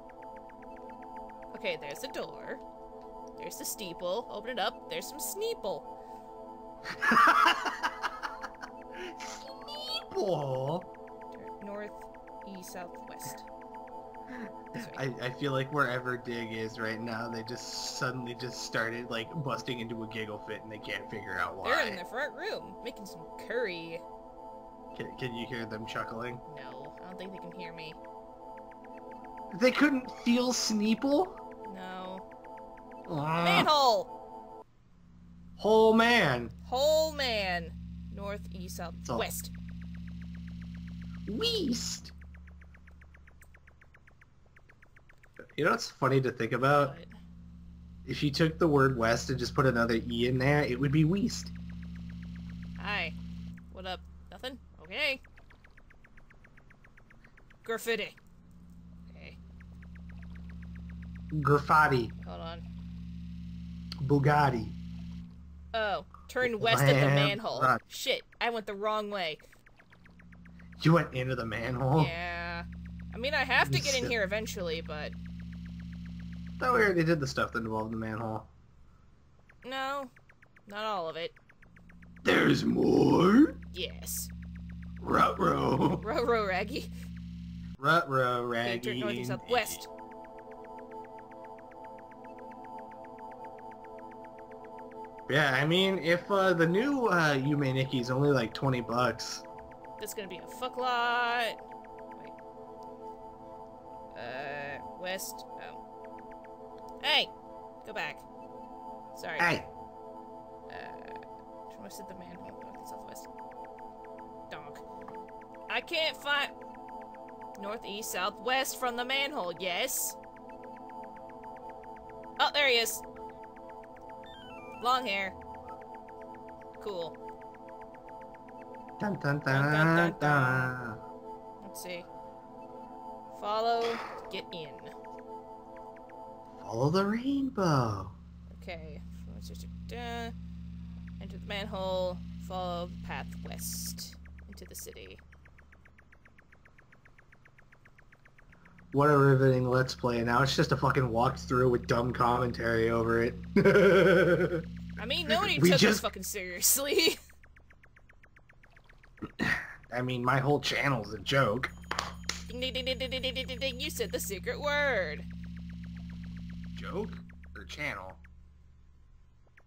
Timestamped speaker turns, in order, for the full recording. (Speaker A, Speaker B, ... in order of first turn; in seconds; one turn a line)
Speaker A: 1.5-2.6
Speaker A: 3.4-5.9
Speaker B: 6.9-8.3
Speaker B: 8.9-10.9
Speaker A: 11.3-13.4
Speaker B: 14.3-22.0
Speaker A: 14.7-15.0
Speaker A: 21.6-24.0
Speaker B: 24.9-26.4
Speaker A: 26.5-28.0
Speaker B: 29.5-31.4
Speaker A: 31.6-32.2
Speaker B: 33.1-33.7
Speaker A: 33.4-34.1
Speaker B: 35.6-36.5
Speaker A: 36.6-39.5
Speaker B: 41.2-42.1
Speaker B: 45.5-47.0
Speaker A: 46.8-47.1
Speaker B: 48.0-51.5
Speaker A: 52.8-53.1
Speaker A: 53.7-55.2
Speaker A: 57.6-58.2
Speaker A: 59.1-59.4
Speaker B: 61.3-62.1
Speaker A: 62.2-62.6
Speaker B: 64.0-64.8
Speaker A: 65.7-69.4
Speaker B: 66.4-67.8
Speaker B: 70.8-72.1
Speaker A: 72.0-75.2
Speaker B: 73.6-74.1
Speaker B: 76.6-78.5
Speaker A: 79.6-80.1
Speaker A: 80.7-81.3
Speaker B: 82.2-83.6
Speaker A: 83.7-84.3
Speaker B: 85.0-86.0
Speaker A: 86.0-86.9
Speaker B: 87.8-89.8
Speaker A: 88.6-89.9
Speaker B: 95.3-99.4
Speaker A: 100.0-101.6
Speaker A: 104.1-105.8
Speaker A: 107.0-107.3
Speaker A: 107.8-108.2
Speaker A: 109.1-109.5
Speaker B: 109.4-109.7
Speaker A: 110.7-113.3
Speaker A: 114.5-114.8
Speaker A: 115.7-116.5
Speaker A: 117.6-120.2
Speaker A: 122.4-123.0
Speaker A: 124.8-125.3
Speaker A: 126.8-127.1
Speaker B: 129.0-131.0
Speaker A: 129.5-130.8
Speaker A: 131.6-132.1
Speaker A: 133.3-134.9
Speaker B: 136.6-138.1
Speaker A: 138.5-140.3
Speaker A: 141.2-145.2
Speaker B: 148.9-154.6
Speaker A: 155.0-157.2
Speaker B: 155.3-156.0
Speaker B: 159.4-161.7
Speaker A: 162.5-165.3
Speaker B: 166.7-168.2